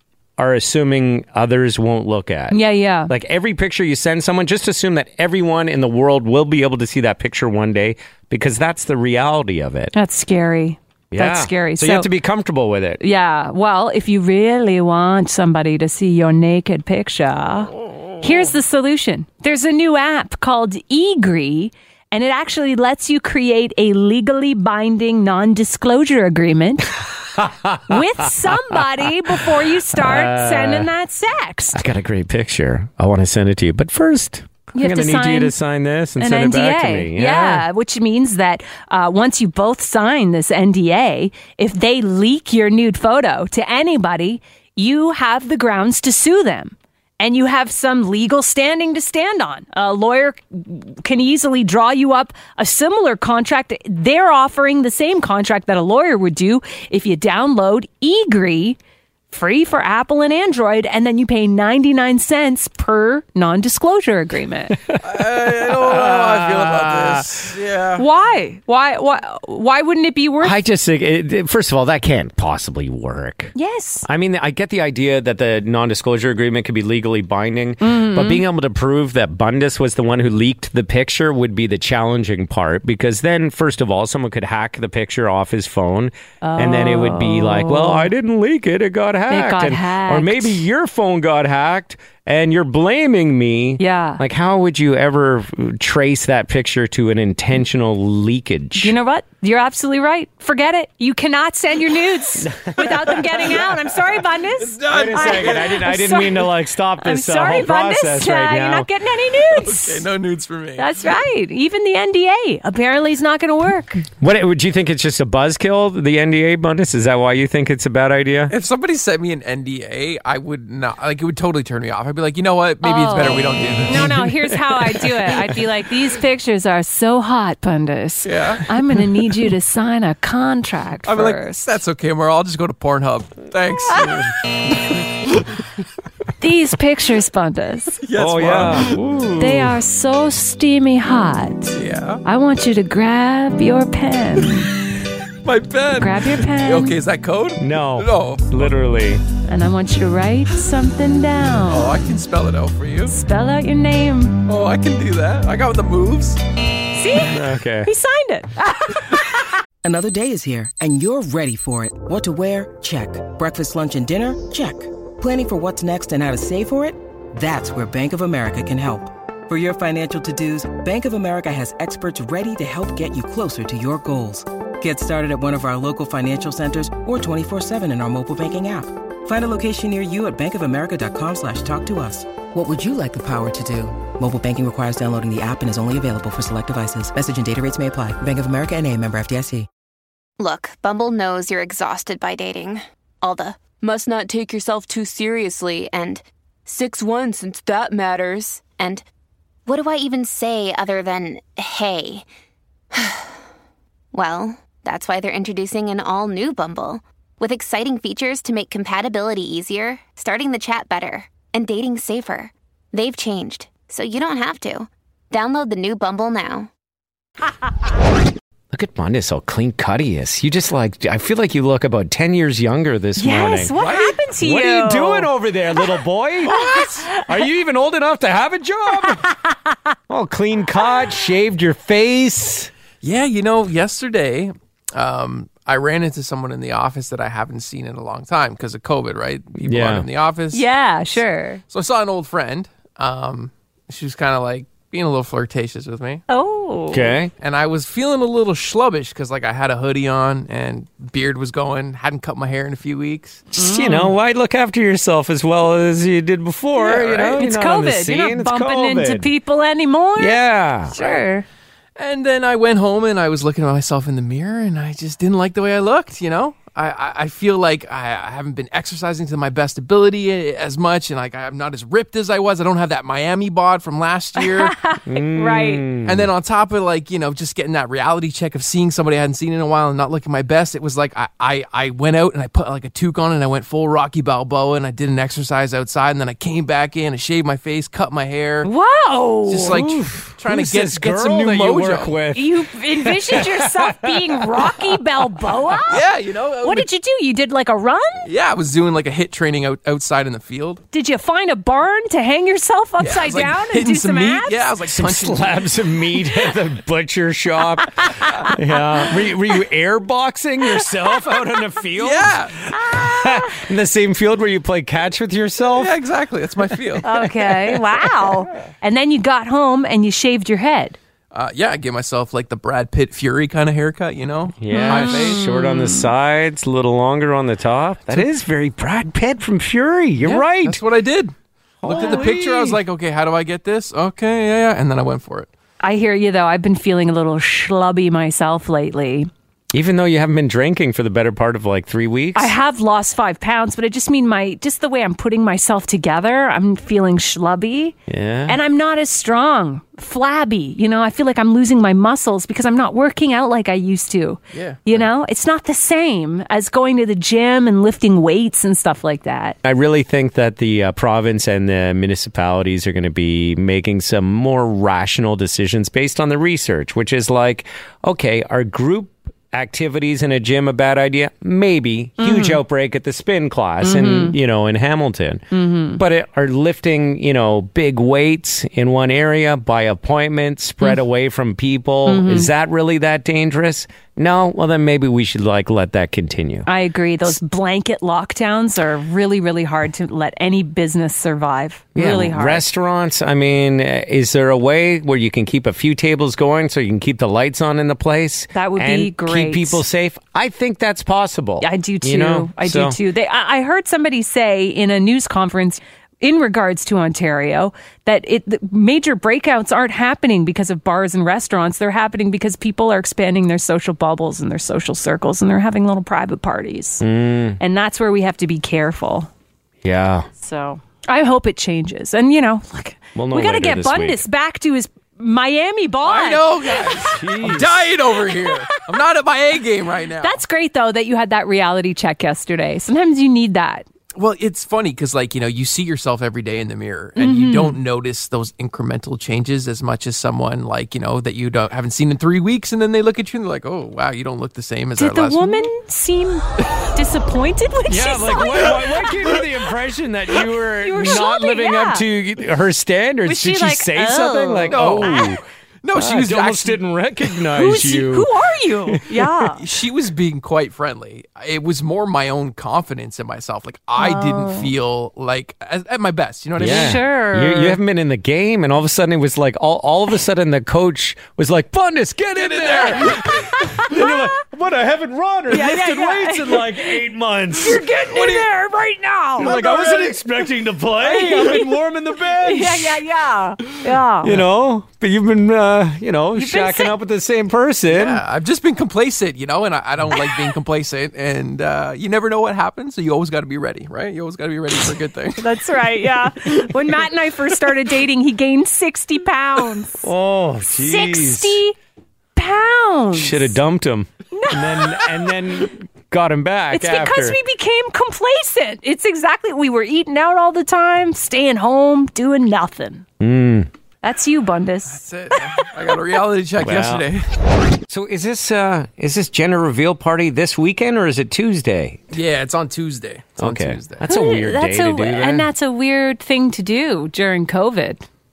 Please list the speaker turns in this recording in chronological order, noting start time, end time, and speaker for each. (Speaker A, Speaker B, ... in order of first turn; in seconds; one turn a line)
Speaker A: 0.4-9.9
Speaker B: 2.5-3.1
Speaker B: 9.9-12.1
Speaker A: 11.1-13.0
Speaker B: 13.0-27.0
Speaker A: 27.2-30.9
Speaker B: 27.9-31.8
Speaker A: 31.7-37.6
Speaker B: 34.7-35.5
Speaker B: 36.2-58.8
Speaker B: 59.3-64.8
Speaker A: 64.9-67.5
Speaker C: 65.0-68.0
Speaker B: 68.0-70.6
Speaker A: 70.4-99.0
Speaker B: 73.5-74.0
Speaker B: 77.8-78.4
Speaker B: 86.4-88.1
Speaker B: 89.3-90.6
Speaker B: 93.8-94.2
Speaker B: 98.8-110.0
Speaker A: 102.4-103.2
Speaker C: 104.6-105.8
Speaker A: 104.9-108.9
Speaker C: 109.5-111.0
Speaker B: 110.8-114.0
Speaker A: 114.2-118.5
Speaker C: 118.5-124.1
Speaker B: 122.8-131.7
Speaker A: 123.6-125.6
Speaker C: 128.2-128.7
Speaker C: 131.0-135.5
Speaker A: 134.0-134.3
Speaker B: 136.4-138.0
Speaker C: 138.0-139.0
Speaker A: 138.1-139.8
Speaker B: 139.4-144.7
Speaker C: 141.7-142.2
Speaker C: 145.4-148.8
Speaker B: 145.9-146.9
Speaker A: 147.6-149.2
Speaker B: 149.4-152.0
Speaker C: 151.7-153.2
Speaker B: 153.1-154.4
Speaker C: 154.5-156.4
Speaker B: 156.9-159.4
Speaker A: 157.1-157.9
Speaker D: 159.8-189.7
Speaker E: 190.4-199.0
Speaker E: 199.7-202.3
Speaker E: 202.9-203.4
Speaker E: 204.1-216.7
Speaker A: 218.7-223.7
Speaker B: 223.2-225.3
Speaker C: 223.8-224.2
Speaker A: 224.4-229.3
Speaker C: 226.4-227.1
Speaker A: 230.1-232.7
Speaker C: 233.0-240.7
Speaker A: 239.6-240.1
Speaker B: 240.5-241.6
Speaker C: 241.7-246.2
Speaker B: 246.3-247.1
Speaker A: 246.9-247.3
Speaker C: 247.4-253.5
Speaker B: 253.5-254.1
Speaker A: 253.6-259.3
Speaker C: 256.8-257.4
Speaker B: 257.3-261.4
Speaker A: 260.1-260.9
Speaker C: 260.9-261.2
Speaker C: 262.0-274.7
Speaker B: 274.4-275.9
Speaker A: 275.0-276.3
Speaker C: 276.0-288.7
Speaker B: 288.6-289.8
Speaker C: 289.5-292.1
Speaker A: 289.6-295.5
Speaker B: 292.3-296.0
Speaker C: 295.9-296.9
Speaker B: 296.6-298.3
Speaker C: 298.2-300.8
Speaker B: 300.9-304.6
Speaker C: 303.0-305.8
Speaker A: 304.9-315.9
Speaker C: 312.0-312.6
Speaker B: 313.1-313.4
Speaker C: 315.8-317.1
Speaker B: 317.0-321.0
Speaker A: 317.5-318.0
Speaker C: 321.3-325.4
Speaker A: 324.6-330.8
Speaker B: 324.7-326.1
Speaker C: 330.2-335.5
Speaker A: 331.8-332.8
Speaker B: 331.9-332.3
Speaker B: 335.8-339.3
Speaker A: 339.7-342.5
Speaker B: 342.4-347.9
Speaker A: 348.1-348.6
Speaker B: 348.5-359.5
Speaker C: 354.5-355.0
Speaker A: 359.6-386.7
Speaker B: 372.2-372.6
Speaker B: 373.8-374.4
Speaker B: 375.5-376.0
Speaker B: 382.1-382.5
Speaker B: 386.7-392.6
Speaker A: 391.9-403.0
Speaker B: 398.5-399.8
Speaker B: 401.6-417.0
Speaker A: 417.0-417.6
Speaker B: 417.6-419.3
Speaker A: 419.8-420.3
Speaker B: 420.4-427.0
Speaker A: 423.1-424.2
Speaker C: 426.0-430.4
Speaker A: 427.1-427.9
Speaker B: 430.2-433.9
Speaker C: 434.1-445.7
Speaker B: 437.2-437.8
Speaker B: 445.0-449.1
Speaker A: 447.9-455.4
Speaker B: 450.8-452.0
Speaker B: 453.2-455.4
Speaker C: 454.7-455.1
Speaker C: 455.8-456.8
Speaker A: 455.9-458.3
Speaker B: 457.5-459.6
Speaker A: 458.9-459.2
Speaker C: 459.6-467.0
Speaker B: 464.0-464.7
Speaker A: 466.6-477.8
Speaker B: 466.6-467.8
Speaker C: 472.4-473.3
Speaker B: 473.5-474.2
Speaker B: 475.5-476.9
Speaker B: 477.6-479.6
Speaker C: 478.1-478.5
Speaker C: 479.4-480.2
Speaker A: 479.4-483.0
Speaker B: 481.0-481.6
Speaker B: 482.4-484.4
Speaker A: 484.2-488.2
Speaker B: 486.4-486.9
Speaker C: 487.9-495.4
Speaker B: 495.4-500.0
Speaker A: 500.0-501.6
Speaker B: 500.7-501.7
Speaker B: 502.4-503.5
Speaker A: 503.1-507.4
Speaker B: 504.4-505.3
Speaker B: 506.7-513.0
Speaker A: 513.2-513.7
Speaker B: 514.0-515.7
Speaker C: 514.9-517.3
Speaker A: 516.6-517.1
Speaker A: 517.9-522.2
Speaker C: 522.1-524.1
Speaker A: 523.4-525.5
Speaker B: 524.0-528.0